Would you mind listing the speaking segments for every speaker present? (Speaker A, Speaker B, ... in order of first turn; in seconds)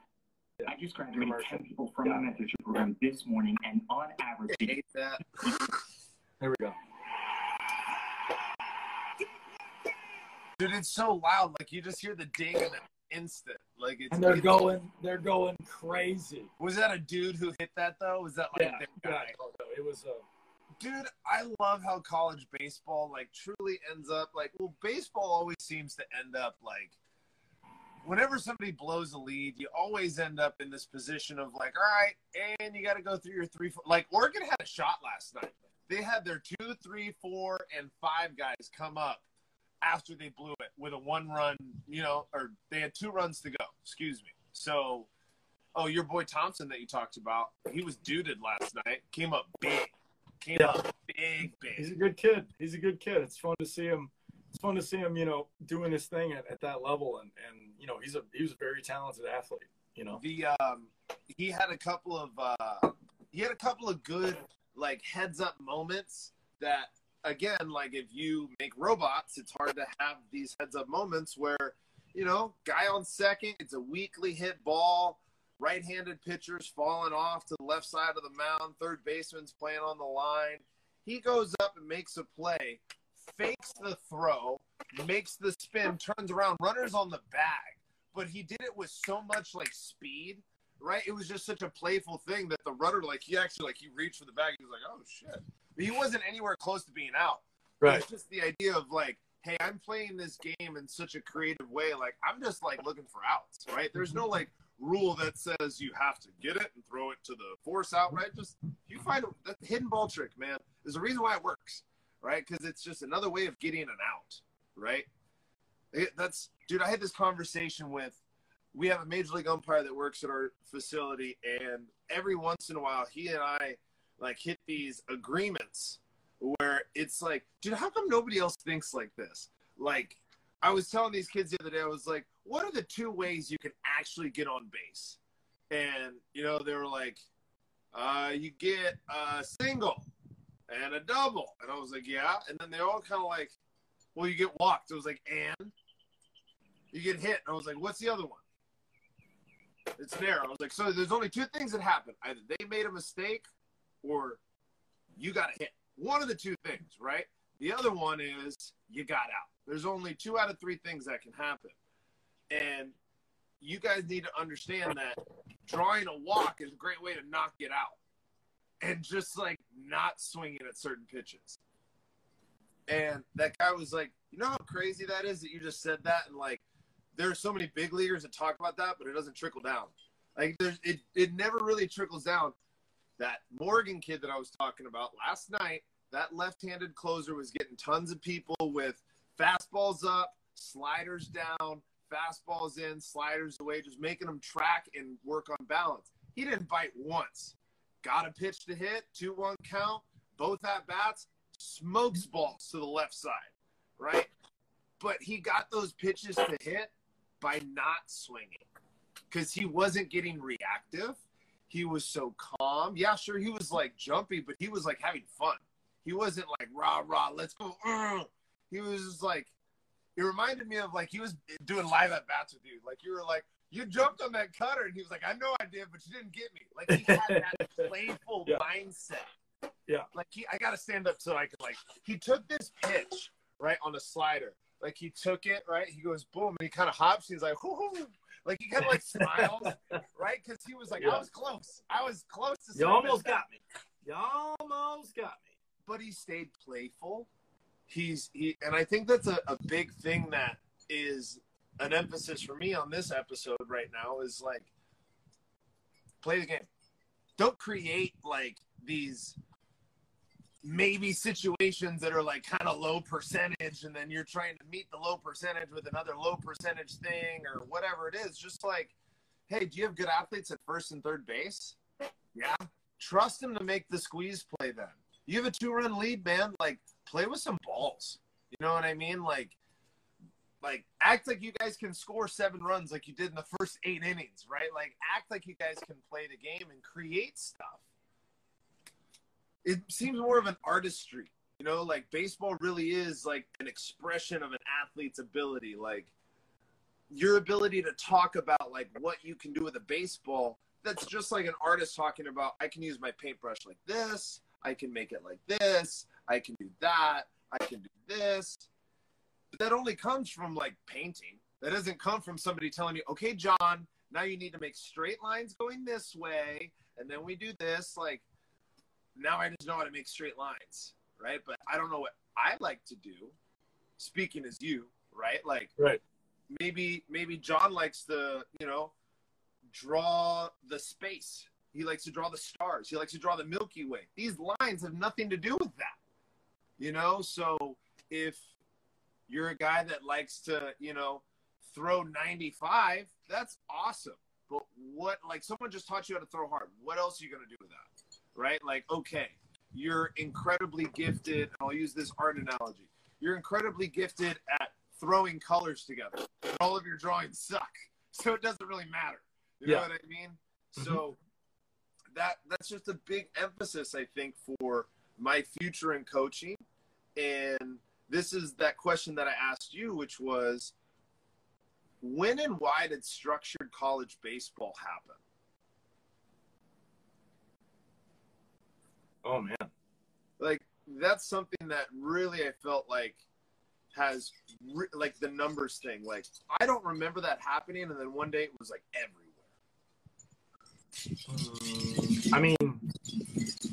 Speaker A: 0.6-1.6, 6.4-6.8, 14.1-16.5, 18.5-20.2, 50.5-50.9, 51.8-60.2, 226.9-227.9, 239.1-240.0, 241.0-241.2, 242.8-245.6, 360.8-361.0, 379.2-379.7, 391.3-392.9
Speaker B: 0.7-4.9
Speaker C: 4.5-5.4, 10.6-14.6, 16.6-19.3, 20.8-27.0, 28.0-39.2, 39.8-45.1, 45.8-51.9, 60.2-115.1, 115.9-118.2, 118.7-135.2, 135.7-137.2, 137.9-140.1, 140.7-143.6, 144.2-145.8, 146.9-148.4, 150.0-153.5, 154.0-154.4, 155.2-161.8, 162.5-163.0, 163.6-168.0, 168.8-171.6, 172.9-176.6, 177.2-182.6, 183.2-204.3, 205.0-208.7, 209.3-219.5, 220.2-229.3, 230.1-243.4, 245.8-247.3, 247.9-254.7, 256.2-256.7, 257.4-259.4, 260.6-268.9, 269.5-271.8, 272.3-279.6, 280.6-287.8, 289.6-296.1, 297.1-308.7, 309.5-318.2, 319.2-323.4, 324.0-325.7, 326.5-328.9, 329.7-336.0, 336.8-338.5, 339.3-361.2, 362.1-366.6, 367.2-370.7, 372.0-375.2, 380.4-383.2, 383.9-389.4